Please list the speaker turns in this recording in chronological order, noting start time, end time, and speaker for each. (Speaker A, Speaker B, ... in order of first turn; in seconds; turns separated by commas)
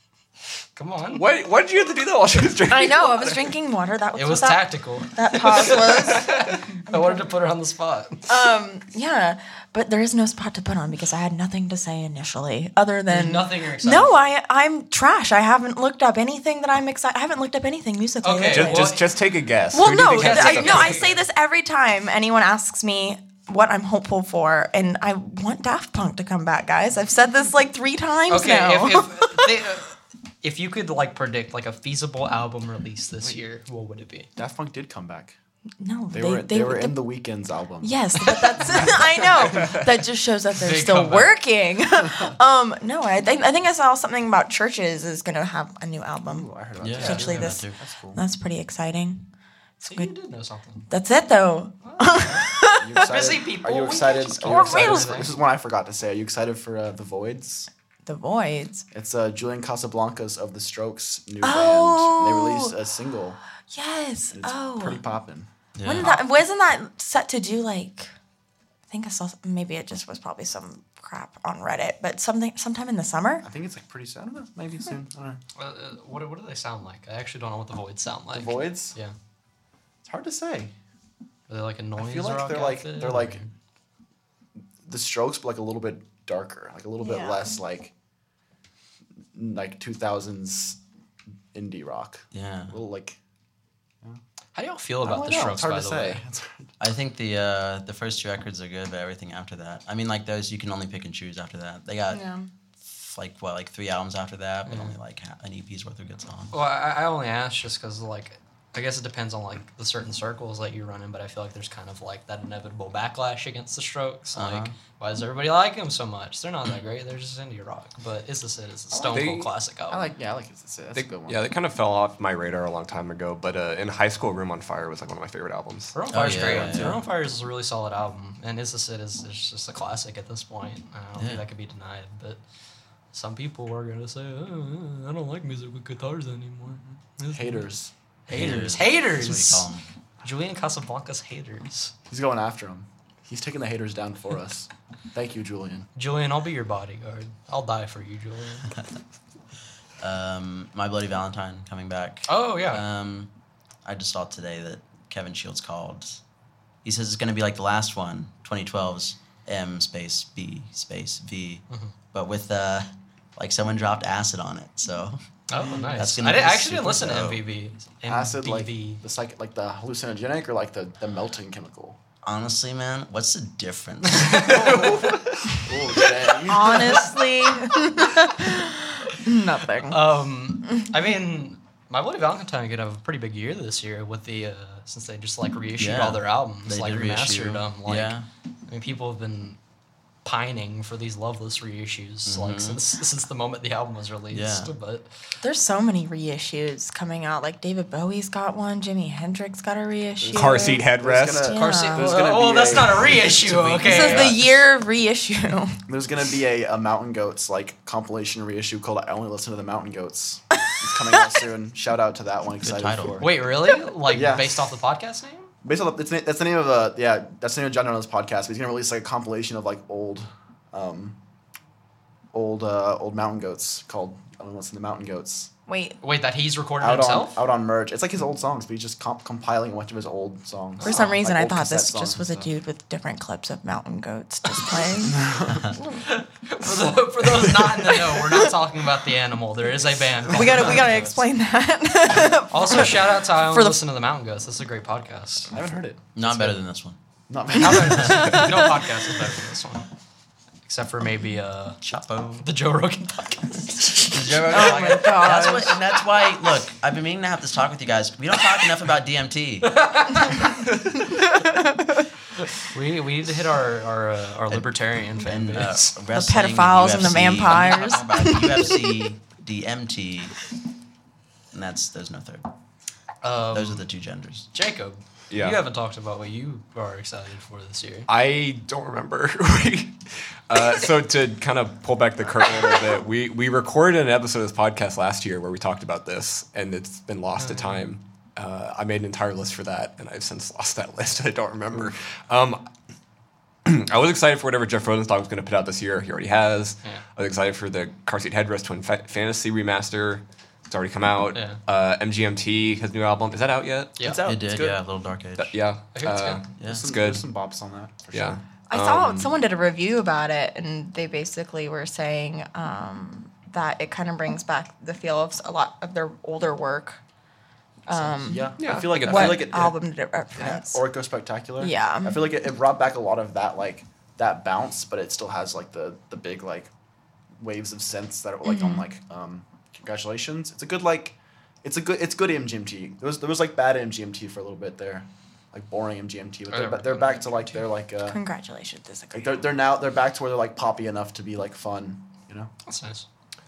Speaker A: 0.8-1.2, Speaker B: 1.1-3.5, Speaker C: 2.7-7.2, Speaker A: 4.1-8.3, Speaker C: 8.3-18.9, Speaker A: 13.1-14.3, Speaker A: 18.2-19.1, Speaker B: 18.5-21.0, Speaker C: 19.7-29.6, Speaker A: 20.1-21.2, Speaker A: 28.3-34.3, Speaker D: 34.4-35.4, Speaker C: 35.8-37.0, Speaker D: 36.1-39.2, Speaker C: 37.8-49.2, Speaker A: 38.2-38.9, Speaker B: 39.5-39.8, Speaker A: 40.5-41.3, Speaker D: 46.2-48.2, Speaker E: 46.8-47.8, Speaker A: 47.0-47.4, Speaker C: 49.8-50.1, Speaker A: 49.8-50.9, Speaker C: 50.9-53.0, Speaker A: 51.8-55.3, Speaker D: 52.8-57.7, Speaker C: 54.4-55.3, Speaker C: 58.0-58.8, Speaker D: 58.9-63.4, Speaker C: 61.4-62.7, Speaker C: 63.7-65.0, Speaker D: 64.3-65.5, Speaker E: 65.7-66.1, Speaker C: 65.8-68.1, Speaker C: 68.9-73.4, Speaker D: 73.4-75.4, Speaker A: 75.5-79.1, Speaker D: 78.3-78.9, Speaker D: 80.0-80.7, Speaker A: 81.5-83.5, Speaker D: 82.0-83.4, Speaker D: 84.8-87.9, Speaker C: 87.0-87.6, Speaker D: 89.3-90.8, Speaker D: 91.5-93.2, Speaker E: 92.3-92.8, Speaker A: 94.5-96.2, Speaker D: 95.0-96.7, Speaker E: 96.8-102.2, Speaker C: 102.1-102.5, Speaker E: 102.8-106.6, Speaker A: 104.7-105.0, Speaker A: 106.5-120.1, Speaker E: 114.3-114.8, Speaker D: 118.9-119.3, Speaker B: 119.1-119.5, Speaker D: 119.9-121.4, Speaker B: 120.9-126.0, Speaker A: 125.9-132.4, Speaker E: 126.1-127.0, Speaker D: 126.3-127.0, Speaker E: 131.2-131.4, Speaker A: 133.1-137.7, Speaker D: 136.8-137.9, Speaker A: 138.3-139.7, Speaker E: 138.3-139.8, Speaker A: 140.2-141.9, Speaker D: 142.1-145.9, Speaker A: 145.9-148.7, Speaker E: 150.0-153.3, Speaker A: 152.3-152.8, Speaker E: 153.8-156.2, Speaker E: 156.8-167.4, Speaker A: 165.5-169.0, Speaker D: 165.6-165.9, Speaker D: 168.1-172.0, Speaker E: 172.2-174.7, Speaker A: 174.1-175.2, Speaker D: 174.5-177.1, Speaker C: 176.4-180.1, Speaker A: 179.9-189.6, Speaker E: 185.8-188.3, Speaker A: 190.2-195.1, Speaker E: 192.2-192.8, Speaker E: 194.3-194.7, Speaker C: 195.4-200.8, Speaker D: 200.2-203.3, Speaker B: 200.3-201.4, Speaker C: 201.4-202.2, Speaker A: 201.5-204.3, Speaker E: 203.2-204.4, Speaker C: 203.8-205.8, Speaker D: 205.9-213.3, Speaker E: 212.6-213.3, Speaker A: 213.2-215.5, Speaker D: 214.1-214.6, Speaker D: 215.6-221.2, Speaker D: 222.3-225.5, Speaker C: 225.7-226.0, Speaker A: 226.0-227.4, Speaker D: 226.8-232.5, Speaker A: 230.8-231.2, Speaker C: 230.8-235.2, Speaker D: 235.0-235.7, Speaker A: 236.0-241.2, Speaker C: 240.3-243.8, Speaker A: 242.5-245.5, Speaker D: 245.5-246.6, Speaker E: 246.1-247.0, Speaker D: 247.3-248.7, Speaker A: 247.5-249.9, Speaker E: 247.8-248.2, Speaker C: 248.2-248.4, Speaker A: 250.7-251.8, Speaker E: 251.8-252.5, Speaker A: 252.4-254.8, Speaker E: 254.1-259.8, Speaker C: 254.4-255.8, Speaker A: 259.6-260.6, Speaker C: 261.1-262.0, Speaker A: 262.4-265.9, Speaker E: 264.5-270.4, Speaker C: 266.1-269.0, Speaker E: 271.5-272.5, Speaker A: 273.2-273.8, Speaker E: 273.5-274.5, Speaker A: 274.5-278.1, Speaker B: 275.3-275.6, Speaker B: 278.1-292.6, Speaker A: 287.4-287.8, Speaker B: 293.6-304.0, Speaker A: 301.3-301.6, Speaker D: 304.0-304.8, Speaker E: 304.2-305.6, Speaker B: 305.4-307.2, Speaker A: 305.9-306.4, Speaker E: 306.6-306.8, Speaker D: 306.6-308.4, Speaker B: 308.1-309.3, Speaker C: 308.7-317.0, Speaker C: 317.9-320.8, Speaker D: 317.9-319.8, Speaker B: 318.6-319.7, Speaker D: 320.3-326.7, Speaker C: 321.6-322.3, Speaker D: 327.4-338.2, Speaker C: 328.4-328.8, Speaker A: 336.5-337.6, Speaker C: 338.0-339.4, Speaker D: 339.1-342.5, Speaker A: 342.6-343.1